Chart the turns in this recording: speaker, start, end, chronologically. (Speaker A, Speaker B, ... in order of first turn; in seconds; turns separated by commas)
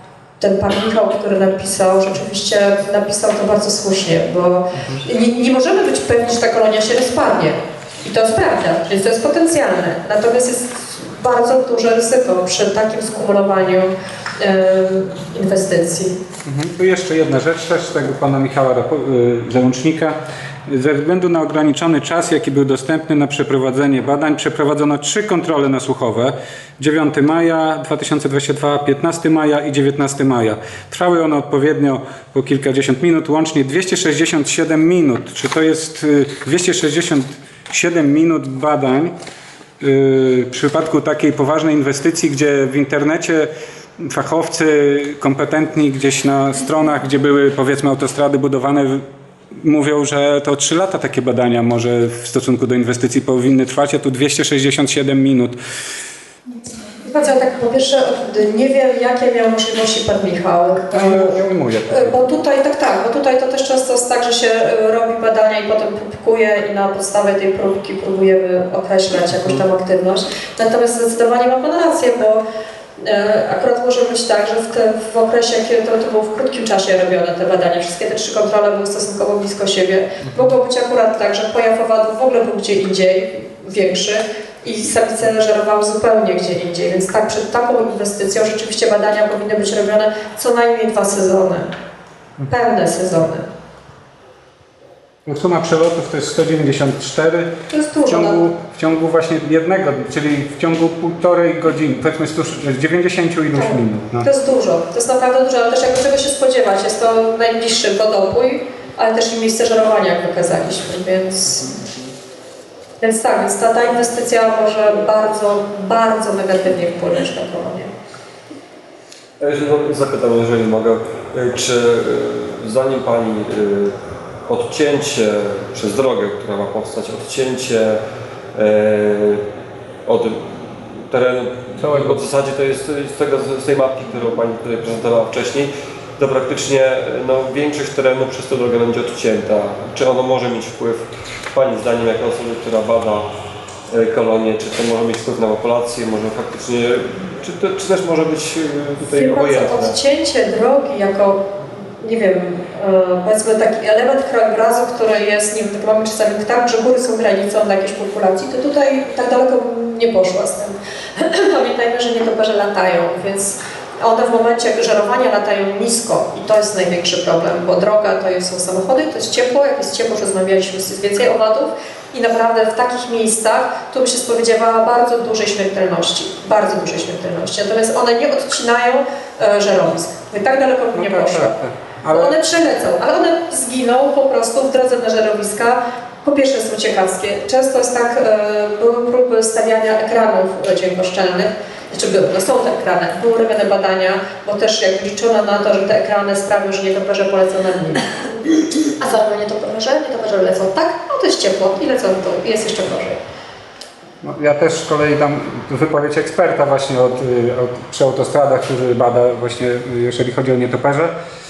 Speaker A: 0.4-16.2, Speaker B: 16.4-39.1, Speaker B: 39.8-55.6, Speaker A: 57.0-72.4, Speaker B: 60.9-62.2, Speaker A: 73.0-91.7, Speaker B: 80.2-80.5, Speaker A: 92.5-93.5, Speaker B: 95.3-104.3, Speaker A: 97.7-98.4, Speaker A: 103.5-111.7, Speaker A: 113.0-117.9, Speaker C: 119.4-123.9, Speaker C: 124.5-128.0, Speaker C: 128.6-129.4, Speaker C: 130.1-143.3, Speaker B: 131.8-132.2, Speaker C: 143.9-150.0, Speaker A: 149.1-181.5, Speaker B: 180.9-182.4, Speaker A: 182.1-198.1, Speaker A: 198.9-203.2, Speaker B: 204.2-211.2